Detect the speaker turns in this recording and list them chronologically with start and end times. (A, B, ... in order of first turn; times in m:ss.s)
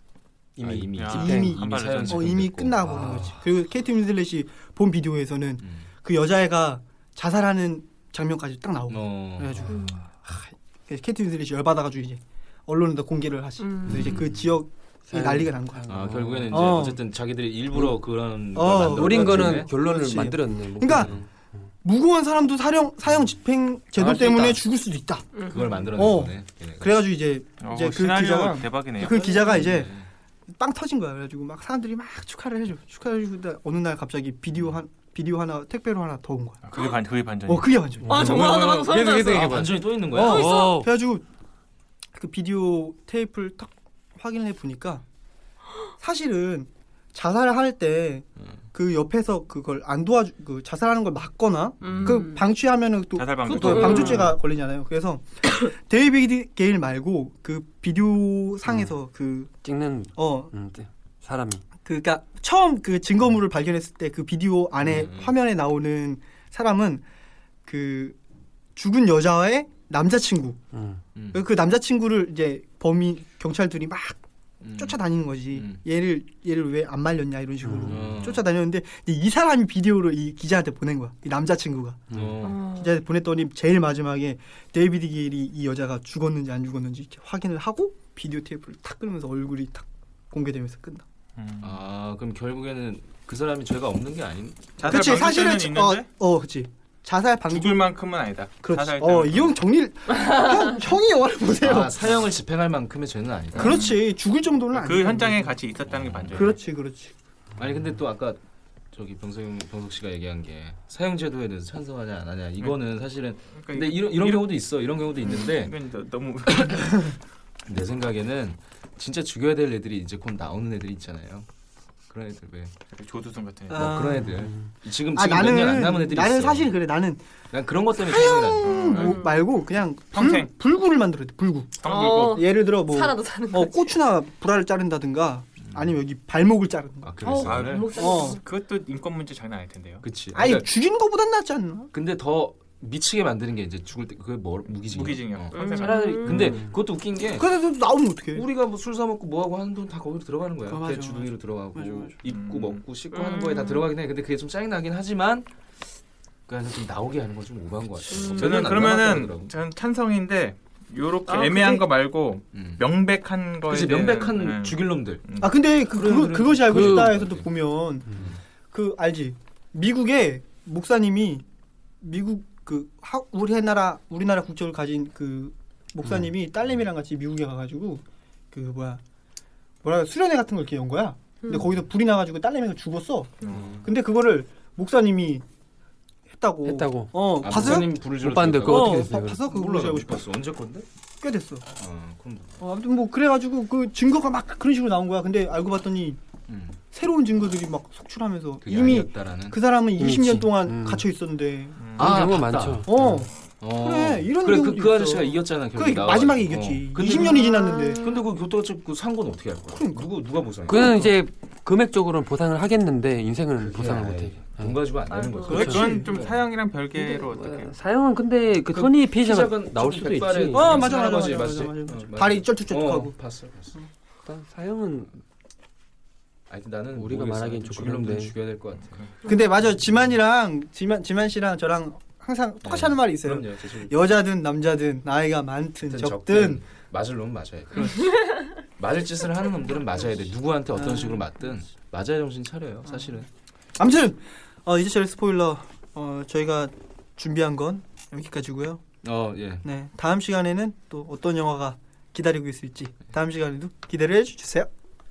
0:00.6-0:01.6 A
0:00.6-0:03.3 B
0:01.0-0:02.4 C
0:01.1-0:17.0 D
0:08.9-0:09.7 B
0:09.7-0:10.0 E
0:13.6-0:14.1 E
0:13.9-0:14.4 B
0:15.1-0:16.6 A
0:15.9-0:19.7 B
0:18.5-0:21.1 D
0:18.9-0:21.3 A
0:20.9-0:21.3 B
0:21.8-0:25.3 D
0:24.0-0:24.6 A
0:25.3-0:25.7 E
0:25.4-0:27.0 B
0:25.9-0:30.0 D
0:27.6-0:29.3 C
0:29.0-0:30.1 B
0:30.6-0:36.7 D
0:36.7-0:38.4 C
0:37.5-0:38.4 D
0:38.1-0:40.9 A
0:38.1-0:39.6 E
0:38.3-0:38.7 B
0:39.3-0:40.6 B
0:40.1-0:41.2 D
0:42.1-0:45.0 D
0:46.0-0:59.5 D
0:51.8-0:52.4 E
0:53.2-0:54.3 C
0:53.6-0:54.3 E
0:59.6-1:01.6 A
1:00.2-1:00.5 D
1:01.8-1:07.0 D
1:04.9-1:05.3 B
1:07.6-1:08.2 D
1:08.8-1:10.6 D
1:10.7-1:11.0 A
1:11.2-1:11.4 B
1:11.3-1:14.2 D
1:14.6-1:15.8 B
1:14.8-1:22.1 D
1:17.6-1:18.0 A
1:17.9-1:18.4 B
1:22.1-1:22.7 B
1:22.4-1:22.9 E
1:22.7-1:31.0 D
1:31.4-1:31.8 C
1:31.6-1:34.7 B
1:34.8-1:36.1 C
1:34.8-1:37.9 D
1:37.5-1:39.6 C
1:38.6-1:42.0 D
1:41.6-1:43.8 B
1:43.6-1:45.6 D
1:43.6-1:44.0 C
1:44.7-1:46.5 C
1:45.9-1:46.5 B
1:46.3-1:47.2 D
1:47.6-1:48.4 B
1:48.9-1:55.7 B
1:53.5-1:54.6 C
1:55.2-1:57.1 C
1:57.7-2:01.5 B
2:02.1-2:02.7 B
2:02.9-2:03.9 C
2:03.7-2:04.4 D
2:03.7-2:06.7 B
2:04.3-2:04.7 A
2:05.1-2:07.2 D
2:07.5-2:09.0 B
2:08.0-2:17.3 D
2:08.6-2:09.2 C
2:08.9-2:09.3 E
2:10.1-2:10.5 C
2:11.8-2:12.4 C
2:11.9-2:14.0 E
2:17.0-2:17.9 B
2:17.2-2:18.4 E
2:17.4-2:20.0 C
2:17.9-2:18.4 D
2:20.0-2:20.7 B
2:20.3-2:21.9 D
2:21.9-2:27.5 B
2:24.9-2:26.4 C
2:25.5-2:26.6 E
2:26.1-2:26.7 A
2:27.4-2:28.5 D
2:28.3-2:35.5 B
2:30.7-2:32.1 D
2:32.2-2:32.8 C
2:33.1-2:33.8 E
2:36.5-2:39.5 B
2:38.1-2:38.7 E
2:38.3-2:45.5 C
2:41.3-2:41.8 E
2:42.5-2:42.8 B
2:43.7-2:45.2 B
2:45.4-2:51.4 D
2:46.0-2:47.5 B
2:46.7-2:47.1 A
2:48.2-2:48.4 B
2:52.0-2:59.0 D
2:59.8-3:05.4 D
3:01.4-3:01.7 E
3:03.5-3:03.9 B
3:06.3-3:08.0 D
3:06.7-3:09.4 A
3:07.4-3:10.9 B
3:08.6-3:10.2 D
3:11.2-3:11.7 D
3:11.8-3:12.6 B
3:12.6-3:16.2 D
3:16.5-3:16.8 B
3:16.9-3:21.8 D
3:18.6-3:19.6 B
3:20.0-3:21.0 A
3:21.8-3:22.2 C
3:22.0-3:22.9 B
3:22.0-3:23.3 A
3:22.8-3:28.0 D
3:23.6-3:31.2 B
3:27.3-3:28.2 E
3:29.7-3:30.1 D
3:30.7-3:34.8 A
3:33.6-3:36.4 B
3:35.1-3:35.5 E
3:35.5-3:36.2 D
3:35.5-3:37.8 C
3:35.5-3:35.8 A
3:37.0-3:40.8 A
3:38.7-3:43.8 B
3:40.5-3:43.2 D
3:44.2-3:45.1 A
3:46.5-3:49.1 B
3:46.9-3:48.3 A
3:49.2-3:56.6 D
3:52.6-3:54.0 B
3:55.9-4:03.3 B
4:00.7-4:01.3 D
4:03.8-4:08.8 D
4:09.0-4:09.7 B
4:09.6-4:14.7 D